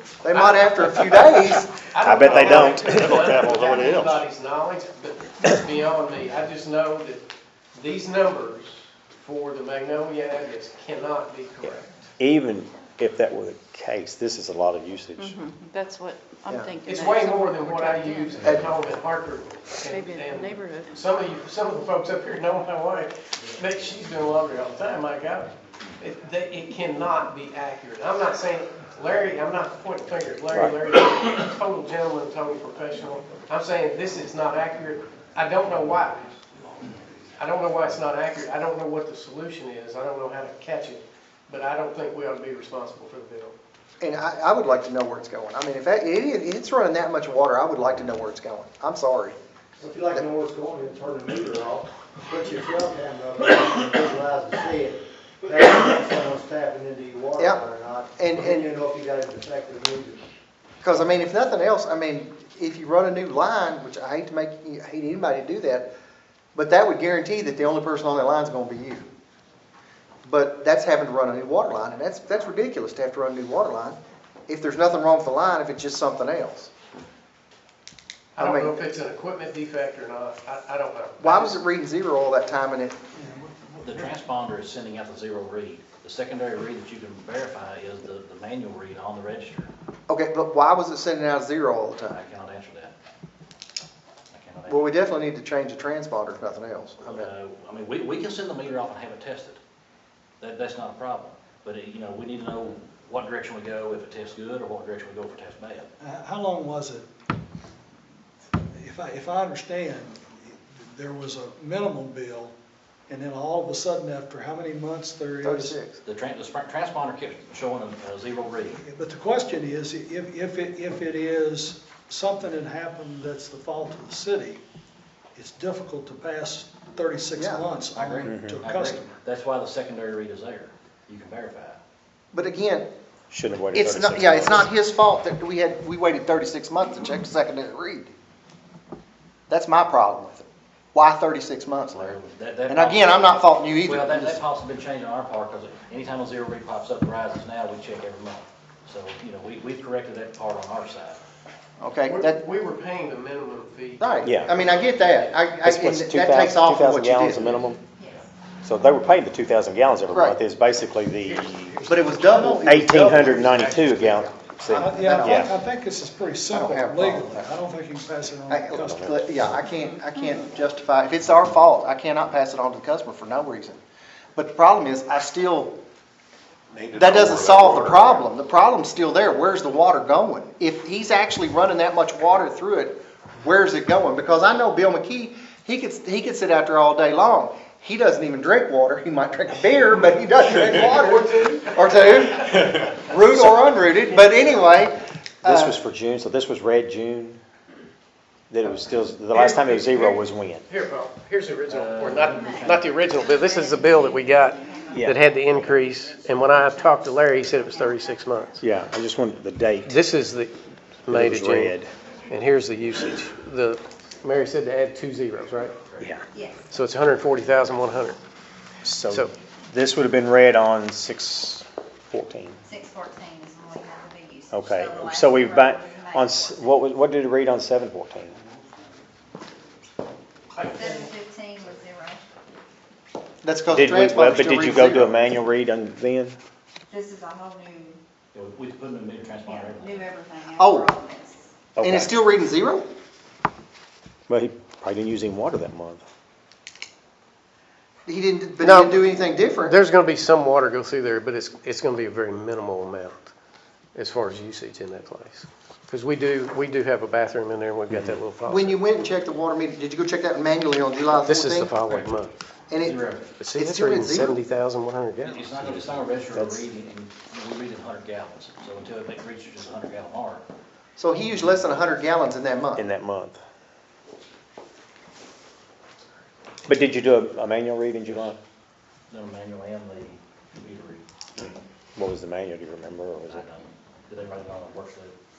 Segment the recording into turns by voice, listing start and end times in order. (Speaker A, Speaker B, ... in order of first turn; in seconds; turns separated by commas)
Speaker A: 0.2-1.7, Speaker B: 0.3-1.3, Speaker B: 1.9-7.2, Speaker C: 2.0-4.2, Speaker A: 2.3-2.7, Speaker B: 7.7-12.0, Speaker C: 12.2-15.4, Speaker D: 15.2-18.5, Speaker A: 16.5-16.7, Speaker B: 16.8-25.5, Speaker D: 19.9-20.9, Speaker B: 26.0-36.3, Speaker B: 37.4-43.5, Speaker A: 44.0-49.4, Speaker E: 49.8-60.2, Speaker A: 57.4-57.6, Speaker A: 58.2-58.7, Speaker A: 60.8-65.9, Speaker A: 66.5-69.1, Speaker A: 70.2-76.7, Speaker B: 78.3-81.6, Speaker A: 78.4-78.8, Speaker A: 81.2-83.0, Speaker F: 83.1-84.1, Speaker G: 83.7-89.7, Speaker A: 90.1-92.2, Speaker G: 92.1-92.9, Speaker G: 94.3-94.9, Speaker A: 94.7-97.3, Speaker G: 97.0-99.6, Speaker G: 100.4-105.9, Speaker F: 106.0-107.0, Speaker F: 108.7-112.5, Speaker F: 113.1-115.8, Speaker A: 115.4-116.0, Speaker G: 116.0-118.8, Speaker F: 118.7-124.6, Speaker F: 125.3-129.1, Speaker A: 127.3-128.2, Speaker G: 128.0-131.8, Speaker C: 128.3-128.6, Speaker A: 132.3-132.9, Speaker C: 133.3-134.7, Speaker A: 133.7-138.1, Speaker A: 139.5-144.4, Speaker G: 141.9-151.2, Speaker A: 151.8-152.4, Speaker B: 152.0-154.3, Speaker A: 154.0-157.7, Speaker C: 154.2-154.6, Speaker C: 155.6-157.8, Speaker H: 157.9-158.3, Speaker C: 158.6-161.7, Speaker A: 160.1-160.4, Speaker B: 161.2-163.7, Speaker A: 161.9-165.5, Speaker C: 162.6-165.5, Speaker F: 164.7-169.1, Speaker A: 166.5-167.5, Speaker A: 168.5-173.8, Speaker C: 168.8-169.4, Speaker A: 174.3-175.7, Speaker A: 176.9-195.8, Speaker B: 190.5-191.7, Speaker C: 195.4-197.4, Speaker C: 198.5-200.6, Speaker B: 199.3-208.6, Speaker G: 201.7-202.9, Speaker H: 202.3-205.3, Speaker C: 204.9-205.2, Speaker H: 206.0-208.6, Speaker C: 208.6-210.0, Speaker B: 209.8-211.8, Speaker C: 211.1-211.9, Speaker B: 212.3-215.7, Speaker H: 216.3-216.7, Speaker B: 216.7-218.2, Speaker C: 218.8-222.6, Speaker H: 222.6-226.7, Speaker C: 224.5-228.4, Speaker B: 230.5-231.1, Speaker H: 230.6-232.2, Speaker A: 233.4-235.2, Speaker C: 233.7-236.3, Speaker H: 236.9-238.0, Speaker G: 238.3-240.1, Speaker H: 239.4-241.5, Speaker A: 240.6-240.9, Speaker C: 241.8-242.1, Speaker A: 241.8-242.9, Speaker C: 244.3-246.0, Speaker A: 248.1-249.8, Speaker B: 248.6-249.0, Speaker B: 249.6-253.3, Speaker B: 253.9-258.8, Speaker C: 257.9-258.2, Speaker A: 258.4-261.7, Speaker B: 261.2-262.3, Speaker A: 262.7-263.0, Speaker G: 262.8-263.3, Speaker B: 263.4-265.4, Speaker A: 263.5-264.4, Speaker G: 265.2-270.4, Speaker C: 266.3-266.6, Speaker A: 271.0-272.9, Speaker C: 272.8-273.4, Speaker C: 276.7-278.4, Speaker G: 279.1-281.0, Speaker C: 281.9-283.5, Speaker G: 283.3-285.1